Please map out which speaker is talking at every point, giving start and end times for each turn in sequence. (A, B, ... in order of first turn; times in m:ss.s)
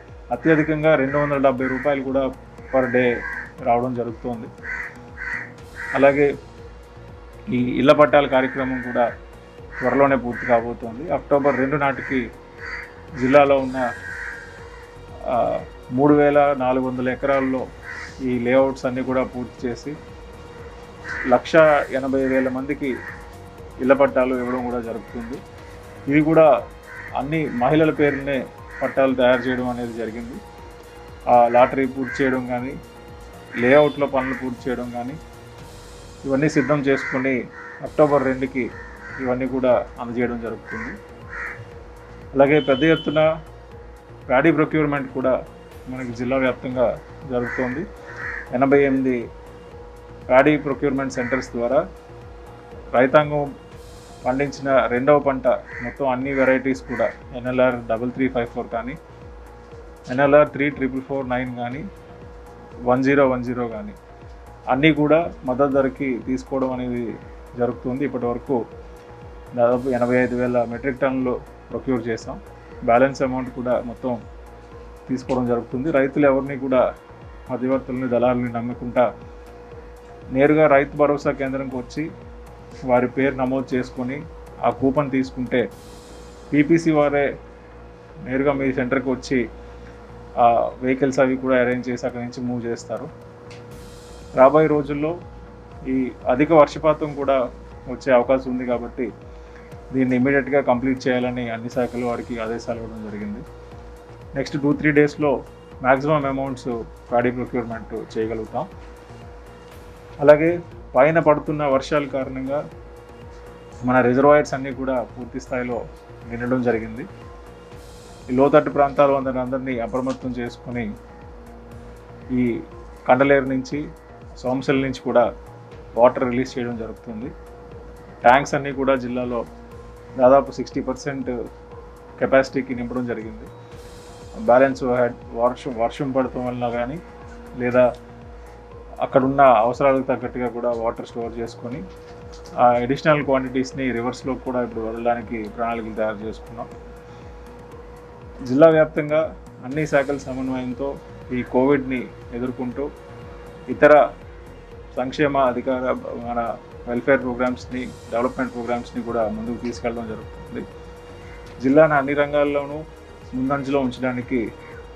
0:00.3-0:03.1 A
0:03.7-0:04.5 A
0:05.9-0:06.3 A
0:07.5-0:09.0 A
0:09.8-0:12.2 A
0:13.2-0:13.8 A
0:15.3-0:17.6 A
0:18.2-0:20.0 A
0:21.3-0:22.9 A
0:23.8-0:25.4 A
0:26.1-0:26.5 A
0:27.2-0:30.4 A
0:31.3-0:32.8 A
0:33.6-0:35.2 A
0:36.2-0:38.7 A
0:39.2-0:41.0 A
0:42.3-0:43.2 A
0:44.3-0:45.3 A
0:45.9-0:47.8 A
0:48.5-0:49.2 A
0:50.3-0:51.8 A
0:52.9-0:53.5 A
0:54.2-0:59.0 A
1:00.1-1:01.8 A
1:02.9-1:04.0 A
1:04.7-1:07.1 A
1:07.6-1:08.6 A
1:09.6-1:14.2 A
1:15.1-1:16.8 A
1:17.5-1:19.0 A
1:20.3-1:22.1 A
1:22.9-1:25.6 A
1:26.5-1:27.3 A
1:28.3-1:29.4 A
1:30.4-1:33.1 A
1:34.4-1:35.1 A
1:35.9-1:37.4 A
1:37.9-1:39.1 A
1:39.9-1:43.4 A
1:44.4-1:48.7 A
1:50.2-1:52.6 A
1:53.8-1:57.1 A
1:58.3-2:00.9 A
2:03.1-2:03.8 A
2:04.4-2:05.3 A
2:06.0-2:07.3 A
2:08.2-2:09.4 A
2:10.2-2:11.3 A
2:12.2-2:13.5 A
2:14.4-2:17.0 A
2:17.6-2:17.9 A
2:19.0-2:21.8 A
2:22.6-2:26.7 A
2:28.5-2:32.9 A
2:33.7-2:34.0 A
2:34.9-2:40.6 A
2:41.6-2:42.8 A
2:43.3-2:44.4 A